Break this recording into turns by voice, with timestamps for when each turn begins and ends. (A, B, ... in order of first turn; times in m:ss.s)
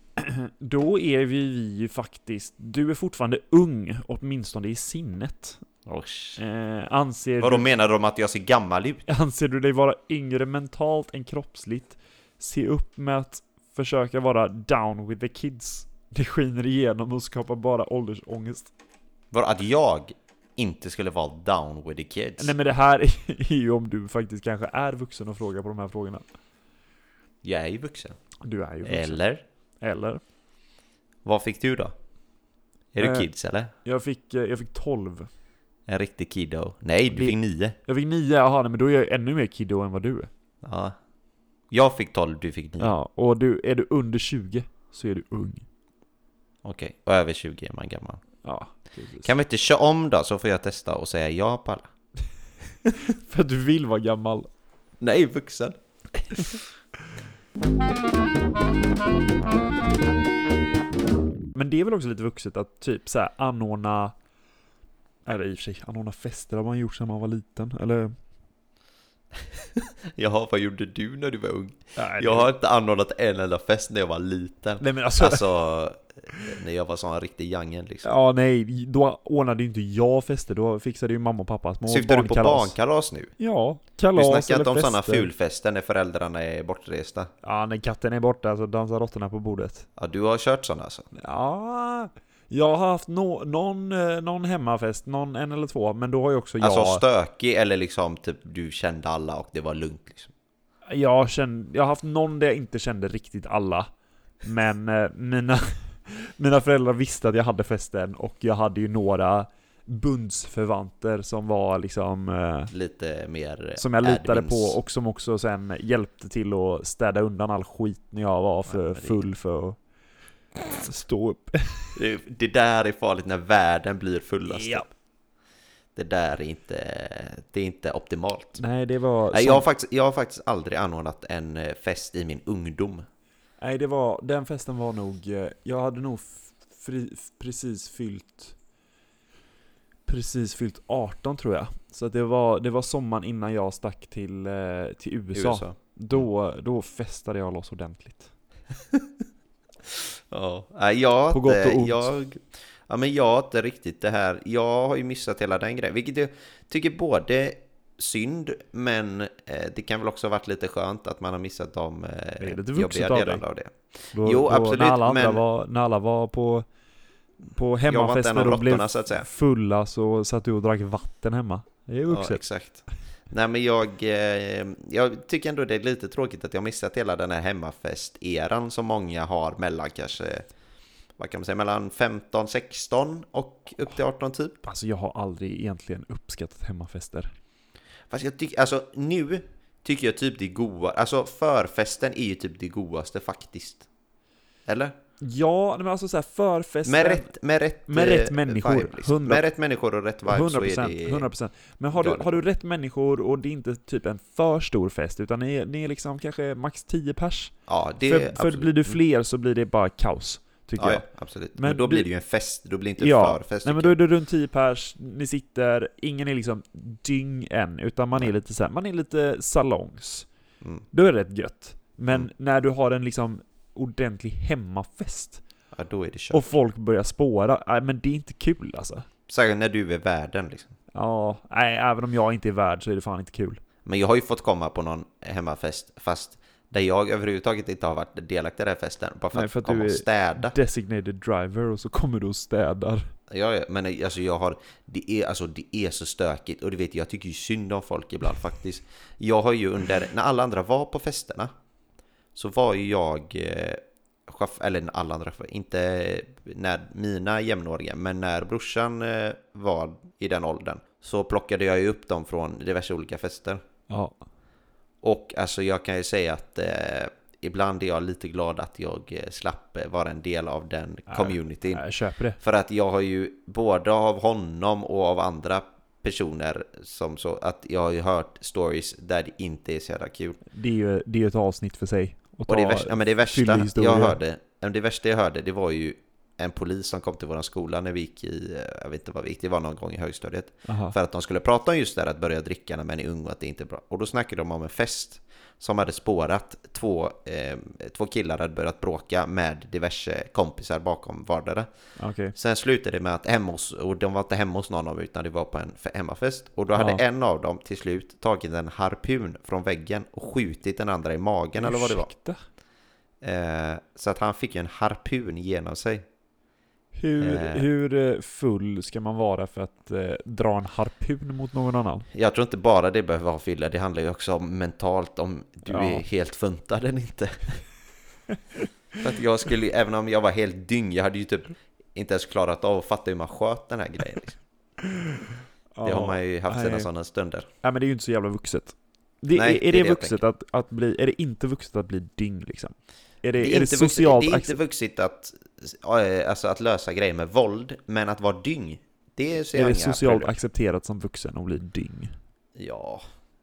0:00.2-0:05.6 A
0:05.9-0:06.4 B
0:06.4-0:07.7 A
0:07.4-0:09.0 B
0:09.1-0:18.7 A
0:19.3-0:22.5 B
0:22.4-0:26.2 A
0:27.4-0:28.2 B
0:28.4-0:29.2 A
0:28.8-0:29.4 B
0:29.8-0:30.2 A
0:31.2-0:31.9 B
0:32.9-0:33.7 B
0:33.0-0:33.3 A
0:33.8-0:35.3 A
0:35.9-0:37.8 B
0:37.1-0:40.3 A
0:40.6-0:41.0 B
0:41.7-0:42.9 B
0:42.8-0:45.6 A
0:46.6-0:48.2 B
0:48.4-0:49.3 A
0:49.2-0:51.9 B
0:53.0-0:54.5 A
0:55.0-0:55.8 B
1:01.5-1:04.2 A
1:05.3-1:08.2 A
1:09.8-1:18.1 B
1:12.0-1:12.5 A
1:14.8-1:15.5 A
1:18.0-1:22.8 A
1:21.9-1:23.3 B
1:23.4-1:25.3 A
1:24.1-1:27.3 B
1:27.4-1:29.9 A
1:30.0-1:31.1 B
1:31.1-1:37.0 A
1:36.6-1:40.3 B
1:40.9-1:43.9 A
1:44.4-1:52.7 A
1:52.7-1:54.8 B
1:53.8-1:59.8 A
1:58.7-1:59.2 B
2:00.7-2:02.0 A
2:02.0-2:04.9 B
2:04.5-2:04.9 A
2:06.0-2:08.6 B
2:08.6-2:09.6 A
2:09.3-2:13.1 B
2:13.6-2:18.6 A
2:20.1-2:28.3 A
2:25.3-2:26.2 B
2:30.3-2:45.4 B
2:31.3-2:32.1 A
2:42.4-2:43.4 A
2:44.1-2:46.7 A
2:47.5-2:52.4 A
2:47.9-2:49.3 B
2:52.1-3:00.5 B
3:01.2-3:04.6 B
3:04.6-3:07.3 A
3:08.1-3:13.9 B
3:14.7-3:15.0 B
3:15.2-3:17.3 A
3:16.8-3:21.3 B
3:17.9-3:19.4 A
3:20.2-3:32.1 A
3:22.0-3:22.3 B
3:27.7-3:29.0 B
3:30.8-3:34.0 B
3:33.0-3:40.3 A
3:40.9-3:45.4 A
3:45.7-3:46.5 B
3:46.3-3:49.1 A
3:49.3-3:50.8 B
3:50.9-3:53.6 A
3:53.8-4:00.6 B
3:59.3-4:03.1 A
4:03.3-4:11.5 B
4:12.4-4:23.6 B
4:23.9-4:24.2 A
4:25.0-4:31.8 B
4:31.1-4:32.4 A
4:32.4-4:40.4 B
4:40.5-4:44.2 A
4:42.5-5:01.7 B
4:50.6-4:51.0 A
5:02.0-5:02.4 A
5:02.4-5:12.1 B
5:06.8-5:07.0 A
5:11.6-5:12.4 A
5:13.2-5:16.0 B
5:16.9-5:22.1 A
5:17.2-5:17.6 B
5:22.1-5:27.6 B
5:25.7-5:26.0 A
5:29.0-5:34.4 B
5:35.8-5:36.9 A
5:35.8-5:37.5 B
5:37.6-5:44.6 A
5:39.3-5:40.2 B
5:43.4-5:50.3 B
5:49.5-5:52.1 A
5:52.6-5:53.0 B